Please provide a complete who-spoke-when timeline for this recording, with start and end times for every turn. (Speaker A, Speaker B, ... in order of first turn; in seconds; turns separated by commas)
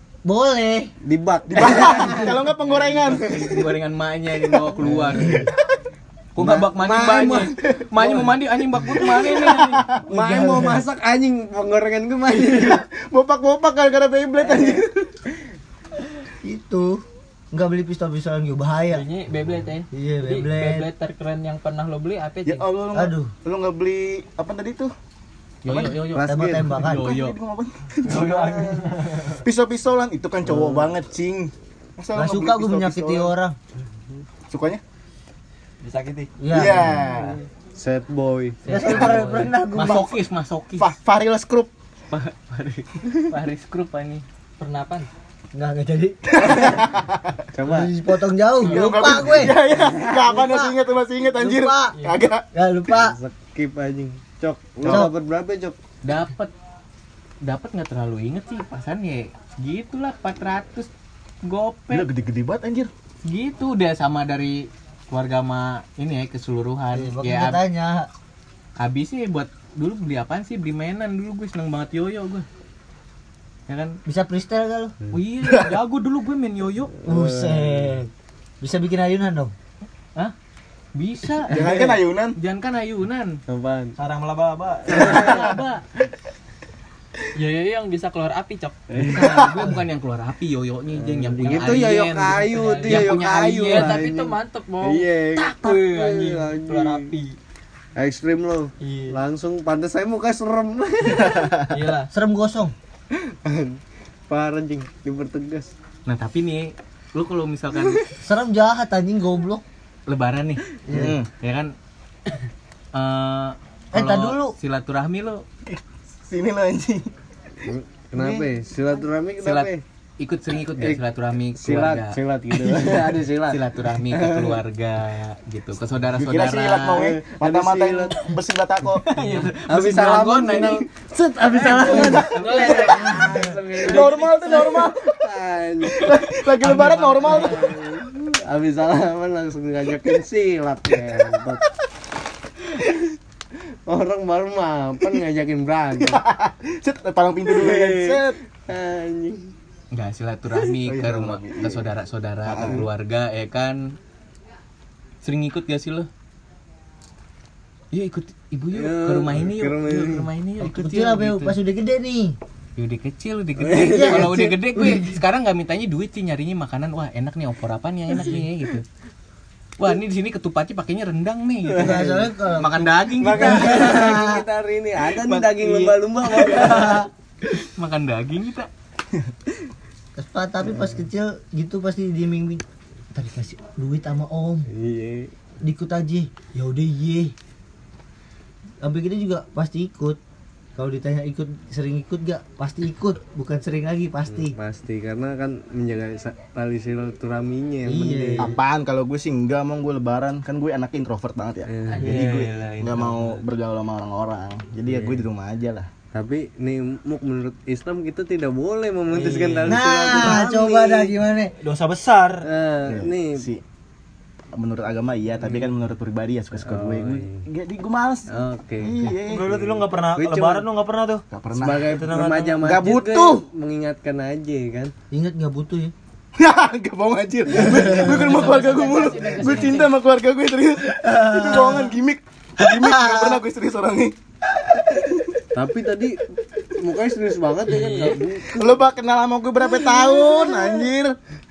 Speaker A: 0.2-0.9, Speaker B: 1.0-3.6, Speaker C: 1.5-3.4, Speaker D: 3.2-5.5, Speaker B: 4.8-5.5, Speaker C: 5.2-5.6, Speaker D: 6.3-9.9, Speaker B: 6.4-8.3, Speaker C: 8.8-9.9, Speaker A: 10.1-10.8, Speaker B: 10.1-12.8, Speaker C: 12.5-15.1, Speaker B: 14.4-14.8, Speaker A: 16.4-17.0, Speaker A: 17.5-19.1, Speaker E: 18.9-22.6, Speaker A: 19.9-20.9, Speaker C: 22.4-24.9, Speaker A: 22.9-23.3, Speaker D: 25.6-27.4, Speaker B: 26.0-26.8, Speaker A: 26.2-27.1, Speaker C: 26.8-28.4, Speaker F: 28.0-29.4, Speaker B: 28.3-28.7, Speaker C: 29.3-33.3, Speaker B: 30.4-30.9, Speaker A: 32.1-33.5, Speaker C: 34.5-34.8, Speaker F: 35.8-36.3, Speaker A: 36.4-36.9, Speaker C: 36.5-37.4, Speaker B: 36.8-39.2, Speaker D: 38.7-40.9, Speaker A: 38.7-40.1, Speaker C: 39.8-40.1, Speaker C: 40.8-41.7, Speaker D: 42.1-44.2, Speaker E: 44.6-45.1, Speaker A: 45.5-46.7, Speaker C: 46.3-47.3, Speaker B: 47.5-47.9, Speaker A: 47.7-49.6, Speaker C: 48.6-52.4, Speaker A: 50.2-50.7, Speaker A: 51.4-51.9, Speaker A: 52.5-53.2, Speaker B: 52.9-55.8, Speaker C: 54.8-55.1, Speaker A: 54.8-55.1, Speaker D: 56.0-56.5, Speaker D: 57.4-60.9, Speaker D: 61.4-62.1, Speaker C: 61.9-62.9, Speaker D: 63.2-67.6, Speaker A: 66.9-68.1, Speaker D: 68.8-72.5, Speaker D: 73.7-74.0, Speaker A: 74.0-74.9, Speaker D: 75.1-76.9, Speaker B: 77.0-78.0, Speaker A: 77.0-78.1, Speaker A: 78.6-79.5, Speaker D: 80.9-83.4, Speaker C: 81.5-82.4, Speaker B: 81.6-81.8, Speaker B: 83.5-84.0, Speaker F: 84.0-85.3, Speaker D: 84.9-85.8, Speaker B: 84.9-85.4, Speaker C: 85.1-85.4, Speaker E: 87.3-88.8, Speaker B: 88.9-89.6, Speaker D: 89.0-94.0, Speaker C: 89.2-89.6, Speaker B: 90.9-97.1, Speaker E: 92.2-97.4, Speaker B: 98.0-101.7, Speaker E: 98.8-99.2, Speaker C: 101.3-101.6, Speaker E: 101.7-102.1, Speaker A: 102.1-102.7, Speaker B: 103.1-103.8, Speaker B: 104.3-105.7, Speaker D: 106.0-108.1, Speaker A: 108.2-109.6, Speaker D: 110.1-110.6, Speaker A: 110.9-111.1, Speaker C: 110.9-111.3, Speaker D: 111.4-111.7, Speaker D: 112.9-115.4, Speaker A: 113.9-114.5, Speaker C: 115.7-117.1, Speaker B: 117.6-119.8, Speaker C: 118.2-118.5, Speaker D: 119.4-127.1, Speaker B: 121.5-124.6, Speaker C: 126.2-129.1, Speaker B: 126.9-128.3, Speaker D: 129.1-130.8, Speaker B: 129.5-136.1, Speaker E: 131.6-134.1, Speaker D: 131.6-132.8, Speaker C: 132.2-133.0, Speaker C: 133.8-135.3, Speaker C: 135.9-137.7, Speaker D: 136.6-137.7, Speaker B: 137.2-141.6, Speaker B: 143.9-146.2, Speaker C: 146.0-148.4, Speaker B: 147.5-149.5, Speaker D: 149.9-153.9, Speaker C: 150.8-151.9, Speaker C: 152.4-152.9, Speaker D: 155.2-156.1, Speaker D: 157.9-161.6, Speaker B: 158.7-160.3, Speaker A: 160.6-162.4, Speaker D: 162.8-168.8, Speaker B: 163.6-165.0, Speaker A: 163.8-164.8, Speaker D: 169.8-174.1, Speaker B: 171.7-172.3, Speaker A: 171.8-174.4, Speaker B: 173.2-177.0, Speaker D: 175.1-178.7, Speaker A: 176.6-177.1, Speaker A: 180.2-184.7, Speaker B: 180.7-180.9, Speaker B: 184.7-185.3, Speaker A: 185.6-187.3, Speaker A: 188.8-190.2, Speaker A: 190.8-194.5, Speaker B: 194.3-198.6, Speaker A: 197.8-198.6, Speaker C: 198.4-205.9, Speaker B: 201.7-202.2, Speaker F: 202.0-203.4, Speaker B: 204.9-205.2, Speaker B: 206.1-211.1, Speaker F: 209.2-209.8, Speaker A: 209.7-211.5, Speaker F: 211.6-212.5, Speaker B: 212.4-213.4, Speaker C: 212.8-213.6, Speaker C: 214.5-219.6, Speaker B: 216.6-217.4, Speaker B: 218.3-220.7, Speaker F: 219.2-221.2, Speaker C: 221.3-222.0, Speaker B: 221.5-224.9, Speaker F: 221.8-222.8, Speaker C: 222.6-223.4, Speaker A: 225.1-225.9, Speaker C: 226.4-234.1, Speaker E: 227.8-229.9, Speaker D: 228.0-229.8, Speaker A: 231.0-231.9, Speaker A: 232.6-233.4, Speaker C: 234.7-235.3, Speaker B: 235.5-236.2, Speaker B: 236.8-238.8, Speaker E: 237.7-238.2, Speaker C: 238.5-241.2